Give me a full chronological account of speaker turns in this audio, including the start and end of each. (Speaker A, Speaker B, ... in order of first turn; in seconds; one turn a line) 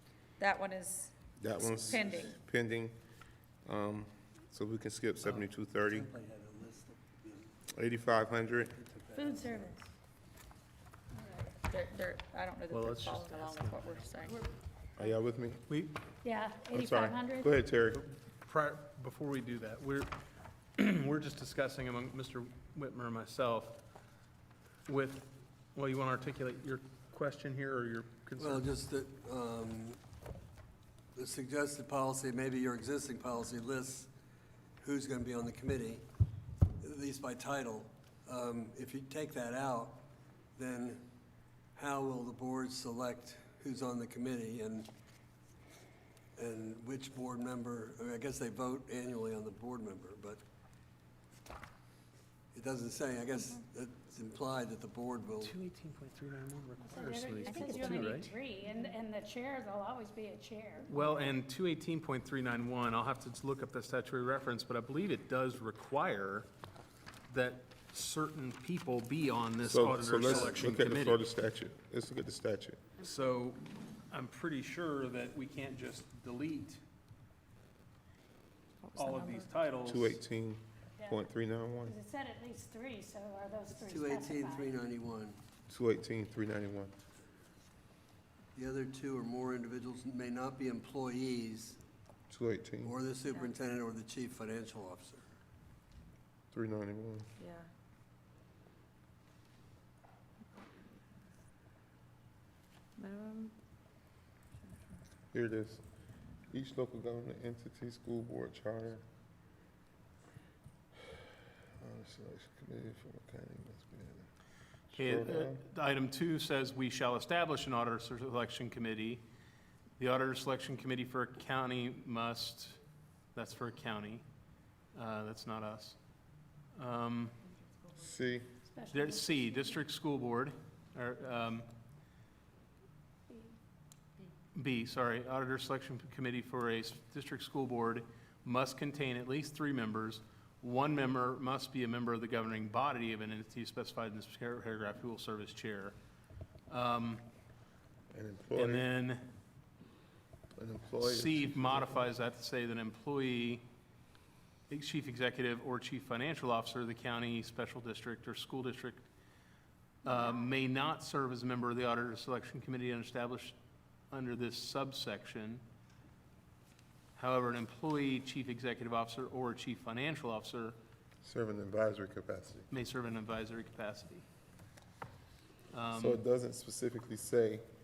Speaker A: 0.4-1.2
Speaker B: 1.4-3.0
Speaker A: 1.8-2.3
Speaker B: 3.6-6.1
Speaker C: 5.2-7.6
Speaker B: 7.7-8.7
Speaker C: 8.4-9.8
Speaker D: 9.1-9.9
Speaker A: 11.6-14.4
Speaker E: 12.7-14.4
Speaker B: 15.0-15.7
Speaker E: 15.7-16.0
Speaker D: 16.2-17.5
Speaker B: 16.7-18.1
Speaker E: 17.9-20.1
Speaker E: 20.8-23.8
Speaker E: 24.9-28.6
Speaker C: 28.4-30.0
Speaker C: 31.1-34.1
Speaker C: 34.8-36.0
Speaker C: 36.8-40.0
Speaker C: 40.5-41.0
Speaker C: 41.7-44.9
Speaker C: 46.4-50.4
Speaker C: 52.5-55.5
Speaker E: 55.4-58.3
Speaker D: 56.8-61.3
Speaker E: 60.9-66.5
Speaker E: 67.3-71.2
Speaker B: 69.6-72.8
Speaker E: 73.0-76.8
Speaker A: 78.8-79.5
Speaker E: 79.0-80.2
Speaker B: 79.8-82.0
Speaker D: 81.0-81.2
Speaker D: 81.8-84.7
Speaker C: 83.7-85.4
Speaker B: 85.7-86.9
Speaker C: 88.5-91.8
Speaker B: 92.3-92.9
Speaker C: 92.8-95.2
Speaker B: 96.5-97.3
Speaker A: 97.4-97.7
Speaker A: 103.0-103.5
Speaker B: 105.3-105.8
Speaker B: 106.5-109.0
Speaker B: 111.8-114.3
Speaker B: 114.9-115.6
Speaker E: 114.9-119.2
Speaker E: 120.0-122.8
Speaker E: 123.3-124.2
Speaker E: 124.9-126.0
Speaker E: 126.7-127.4
Speaker B: 127.9-128.5
Speaker D: 128.7-129.8
Speaker E: 128.9-131.7
Speaker D: 133.3-133.6
Speaker E: 134.5-146.0
Speaker E: 146.7-147.2
Speaker B: 148.1-148.9
Speaker E: 148.5-149.2
Speaker B: 150.6-152.0
Speaker E: 151.0-153.6
Speaker E: 154.7-159.1
Speaker E: 160.0-163.6
Speaker E: 164.1-165.6
Speaker E: 167.2-170.8
Speaker B: 171.2-172.7
Speaker E: 172.7-174.2
Speaker E: 175.7-176.2
Speaker B: 175.9-177.6